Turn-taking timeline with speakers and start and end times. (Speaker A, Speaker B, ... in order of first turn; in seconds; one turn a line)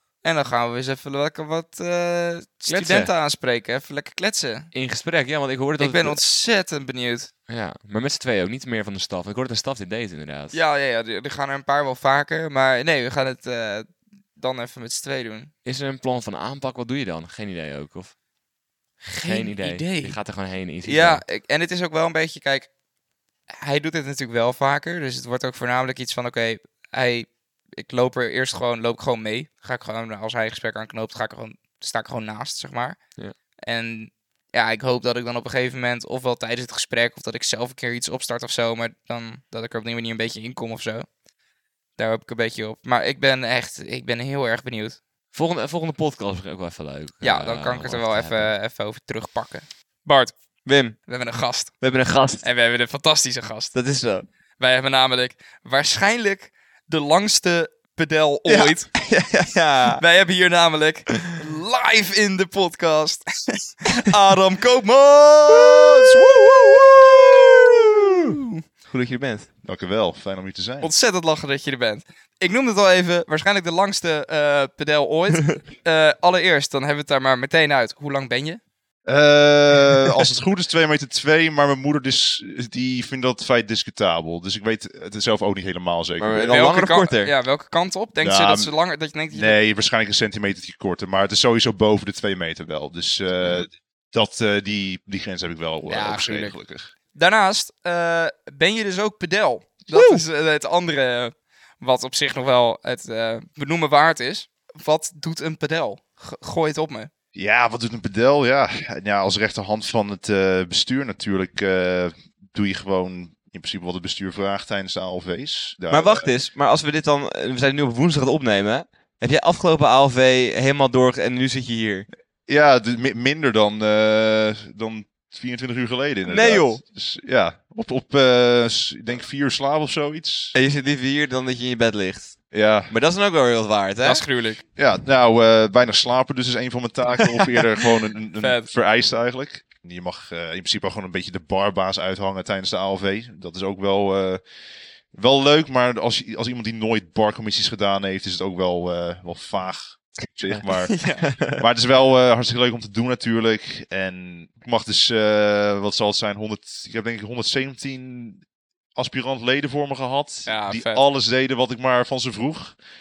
Speaker A: 0.2-4.7
Speaker B: 2.7-3.1
Speaker B: 4.7-6.2
Speaker A: 5.8-7.3
Speaker B: 7.5-10.6
Speaker A: 10.5-15.5
Speaker B: 15.7-18.2
Speaker A: 19.0-20.2
Speaker B: 19.2-21.2
Speaker A: 20.8-22.7
Speaker A: 23.6-33.0
Speaker A: 33.7-41.1
Speaker A: 42.0-45.0
Speaker B: 45.3-48.5
Speaker A: 47.2-50.4
Speaker B: 50.6-51.0
Speaker A: 51.0-51.8
Speaker B: 51.8-52.5
Speaker A: 52.4-53.8
Speaker B: 53.7-54.3
Speaker A: 54.6-58.9
Speaker B: 58.5-60.0
Speaker A: 60.0-68.6
Speaker B: 67.6-68.3
Speaker B: 68.9-69.5
Speaker C: 69.6-70.9
Speaker A: 70.8-78.6
Speaker C: 79.1-86.6
Speaker B: 86.2-87.3
Speaker A: 86.5-89.6
Speaker C: 88.2-88.7
Speaker C: 89.3-96.9
Speaker B: 95.9-96.5
Speaker A: 97.1-107.1
Speaker B: 99.9-100.2
Speaker C: 107.3-116.3
Speaker B: 115.9-122.1
Speaker C: 122.5-130.6
Speaker B: 126.3-126.8
Speaker B: 130.6-134.2
Speaker C: 132.5-132.9
Speaker A: 134.0-134.6
Speaker C: 134.8-144.4
Speaker A: 138.4-138.7
Speaker C: 145.1-158.4
Speaker A: 150.9-151.2
Speaker B: 151.2-151.6
Speaker C: 159.0-162.8
Speaker A: 160.5-161.0